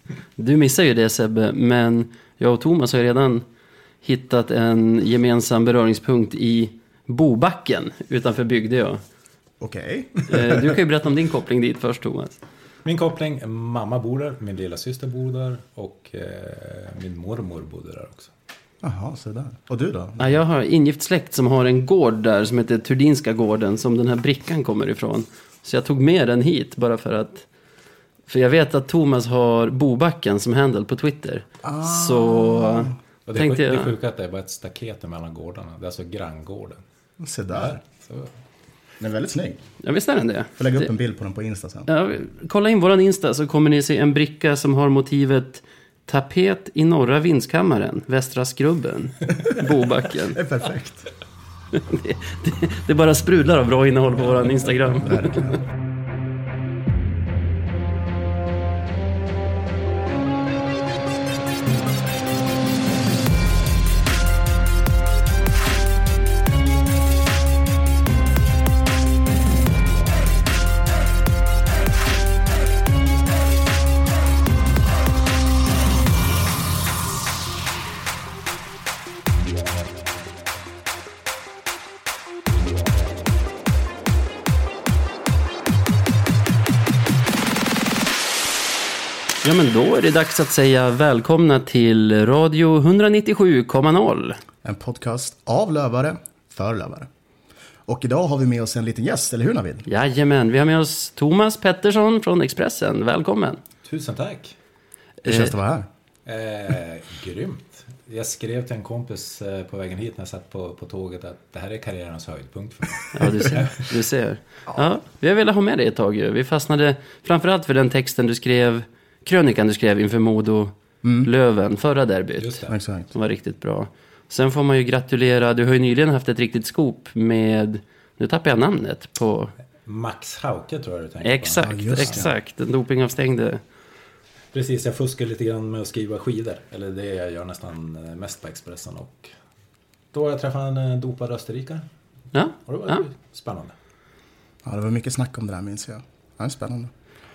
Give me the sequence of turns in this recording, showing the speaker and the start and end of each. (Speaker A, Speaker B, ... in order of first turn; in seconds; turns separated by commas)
Speaker A: 0.4-3.5, Speaker A: 4.0-9.0, Speaker B: 9.6-10.7, Speaker A: 10.3-12.4, Speaker C: 12.8-18.3, Speaker B: 18.8-20.4, Speaker A: 20.2-27.5, Speaker A: 28.3-33.9, Speaker B: 31.6-32.9, Speaker C: 33.2-36.8, Speaker B: 37.2-37.8, Speaker C: 37.6-38.3, Speaker B: 39.0-39.6, Speaker A: 39.8-40.9, Speaker B: 40.6-41.9, Speaker A: 41.9-50.4, Speaker B: 50.3-51.1, Speaker A: 51.7-55.3, Speaker B: 55.0-55.6, Speaker A: 89.4-94.4, Speaker B: 94.6-97.1, Speaker B: 97.9-99.8, Speaker A: 99.9-103.6, Speaker C: 103.8-104.5, Speaker A: 105.2-105.5, Speaker B: 105.2-105.9, Speaker C: 106.2-113.8, Speaker A: 113.1-129.5, Speaker B: 121.0-121.3, Speaker C: 122.4-122.7, Speaker B: 122.7-123.1, Speaker C: 129.8-132.2, Speaker A: 131.2-133.6, Speaker B: 131.6-132.3, Speaker C: 134.5-139.3, Speaker C: 140.1-141.8, Speaker A: 142.3-143.0, Speaker C: 142.7-143.7, Speaker B: 144.6-146.9